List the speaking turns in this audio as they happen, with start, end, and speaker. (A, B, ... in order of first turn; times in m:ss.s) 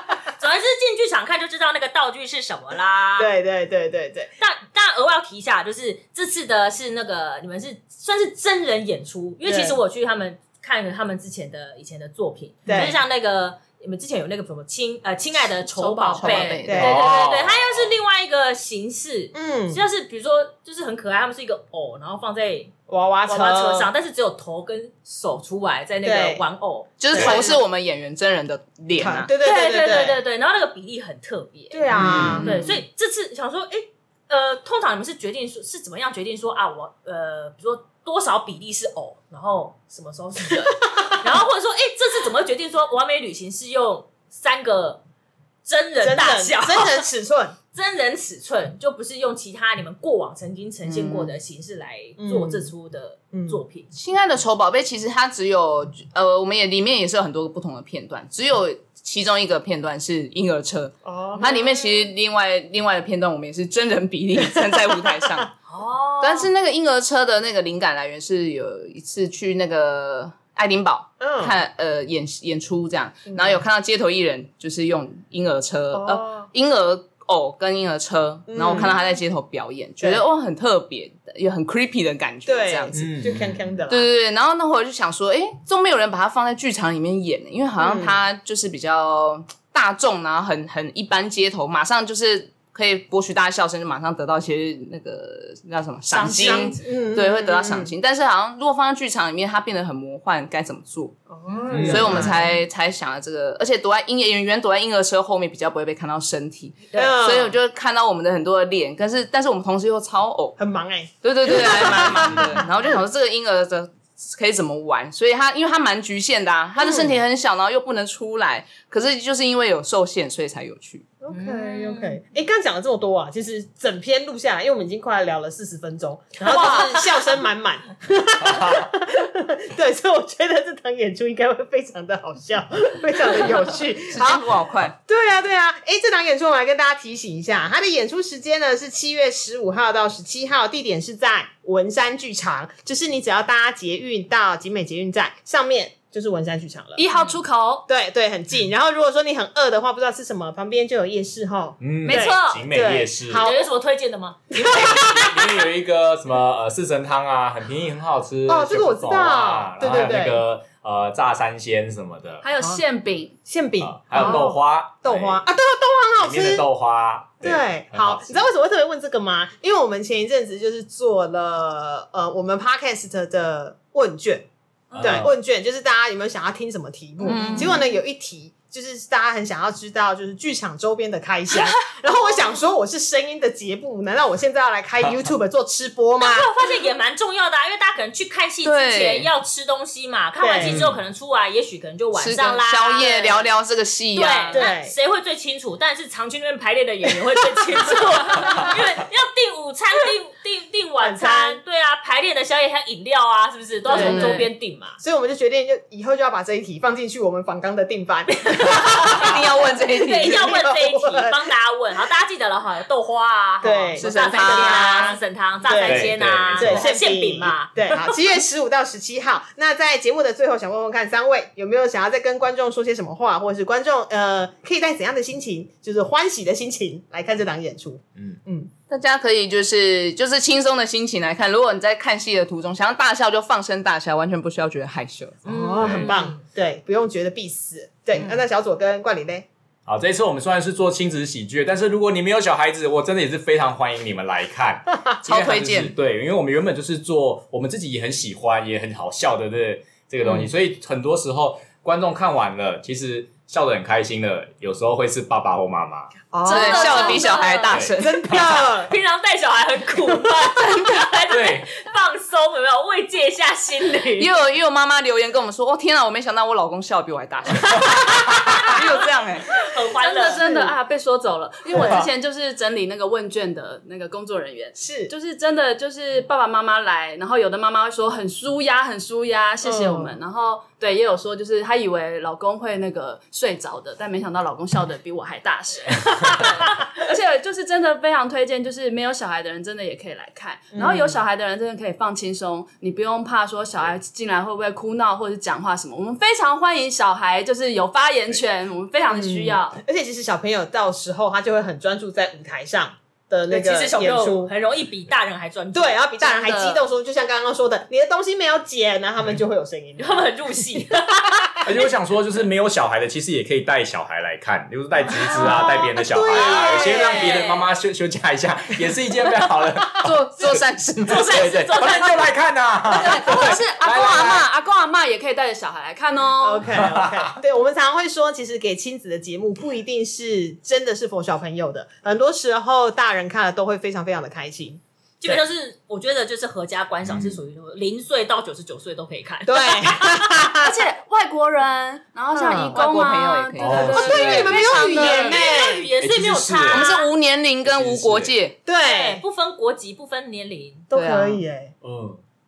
0:00.4-0:03.3 A
0:03.2-0:04.3 B
0:04.4-0:22.7 A
0:09.4-0:09.8 B
0:12.6-0:13.0 B
0:15.8-0:17.1 C
0:15.8-0:16.6 D
0:16.6-0:17.2 B
0:16.8-0:17.9 E
0:19.3-0:19.8 B
0:22.9-0:23.9 B
0:23.2-0:27.6 A
0:26.0-0:26.4 B
0:27.0-0:29.3 C
0:27.1-0:27.4 E
0:28.9-0:30.2 B
0:29.4-0:45.0 A
0:31.7-0:32.4 B
0:31.9-0:32.4 E
0:31.9-0:32.8 C
0:40.8-0:41.2 B
0:45.6-0:47.0 A
0:46.0-0:47.5 B
0:47.7-0:53.9 A
0:50.9-0:51.3 B
0:52.2-0:52.7 B
0:53.3-0:53.6 B
0:53.9-1:05.5 C
1:01.0-1:01.6 B
1:05.7-1:06.5 A
1:06.2-1:23.1 C
1:11.2-1:11.5 B
1:13.3-1:13.6 B
1:15.9-1:16.5 B
1:18.5-1:19.0 B
1:22.4-1:24.1 B
1:22.9-1:23.7 E
1:23.9-1:50.6 C
1:27.8-1:28.2 B
1:36.1-1:36.8 D
1:36.1-1:37.9 B
1:41.3-1:42.5 B
1:41.7-1:42.5 E
1:46.9-1:47.6 B
1:50.6-1:52.7 B
1:51.2-2:01.1 C
1:52.3-1:52.6 E
1:56.8-1:57.1 B
2:01.2-2:27.0 B
2:01.3-2:02.2 A
2:06.4-2:07.2 A
2:14.1-2:15.0 C
2:27.0-2:27.8 D
2:27.9-2:33.6 B
2:31.8-2:33.4 E
2:32.0-2:32.6 D
2:33.3-2:35.5 A
2:34.6-2:35.5 B
2:34.7-2:42.5 E
2:38.5-2:40.4 B
2:42.4-2:43.4 D
2:43.4-2:46.6 B
2:43.8-2:45.4 E
2:46.2-2:48.4 E
2:47.4-3:06.5 B
2:54.9-2:55.3 E
2:57.2-2:57.8 C
2:57.3-2:57.7 D
2:57.3-2:57.7 A
3:06.2-3:13.5 A
3:08.6-3:09.3 C
3:10.4-3:10.8 B
3:10.6-3:11.0 E
3:12.1-3:14.6 C
3:14.1-3:25.0 A
3:14.5-3:14.9 B
3:21.0-3:21.6 B
3:23.9-3:24.5 D
3:23.9-3:24.4 C
3:24.0-3:24.3 B
3:25.0-3:29.4 B
3:28.3-3:37.9 A
3:29.0-3:30.6 C
3:30.3-3:31.5 B
3:33.6-3:48.7 B
3:34.0-3:35.1 C
3:35.8-3:36.8 E
3:48.9-3:55.4 C
3:55.4-3:56.4 A
3:55.4-3:59.4 B
3:55.8-3:56.1 E
3:59.8-4:16.2 E
4:05.2-4:05.9 C
4:16.3-4:17.4 B
4:16.4-4:17.9 D
4:16.4-4:18.4 C
4:17.7-4:18.5 E
4:17.9-4:18.9 B
4:18.9-4:24.3 A
4:21.3-4:21.7 E
4:24.2-4:29.6 C
4:29.5-4:30.4 A
4:30.0-4:59.8 D
4:30.4-4:30.7 B
4:31.7-4:32.0 B
4:31.7-4:32.1 E
4:34.7-4:35.1 B
4:39.6-4:40.2 B
4:50.7-4:51.2 B
4:59.1-5:04.5 B
5:03.5-5:06.2 A
5:05.7-5:10.6 B
5:06.2-5:06.8 D
5:10.0-5:11.9 A
5:11.6-5:24.5 E
5:15.2-5:17.3 B
5:15.3-5:15.7 A
5:16.3-5:17.7 A
5:20.0-5:21.4 C
5:21.1-5:22.4 A
5:22.8-5:26.8 D
5:23.0-5:23.4 C
5:26.4-5:35.4 B
5:26.8-5:27.3 E
5:35.2-5:40.3 A
5:37.0-5:37.4 E
5:39.5-5:40.7 B
5:40.5-5:45.4 D
5:42.3-5:42.8 B
5:42.4-5:45.3 C
5:43.6-5:44.0 E
5:43.8-5:45.9 B
5:44.2-5:47.1 A
5:46.0-5:46.8 E
5:46.7-5:48.6 C
5:47.6-5:48.3 E
5:48.6-5:49.2 B
5:48.8-5:50.8 A
5:50.9-5:51.7 B
5:50.9-5:51.4 C
5:51.8-5:52.2 E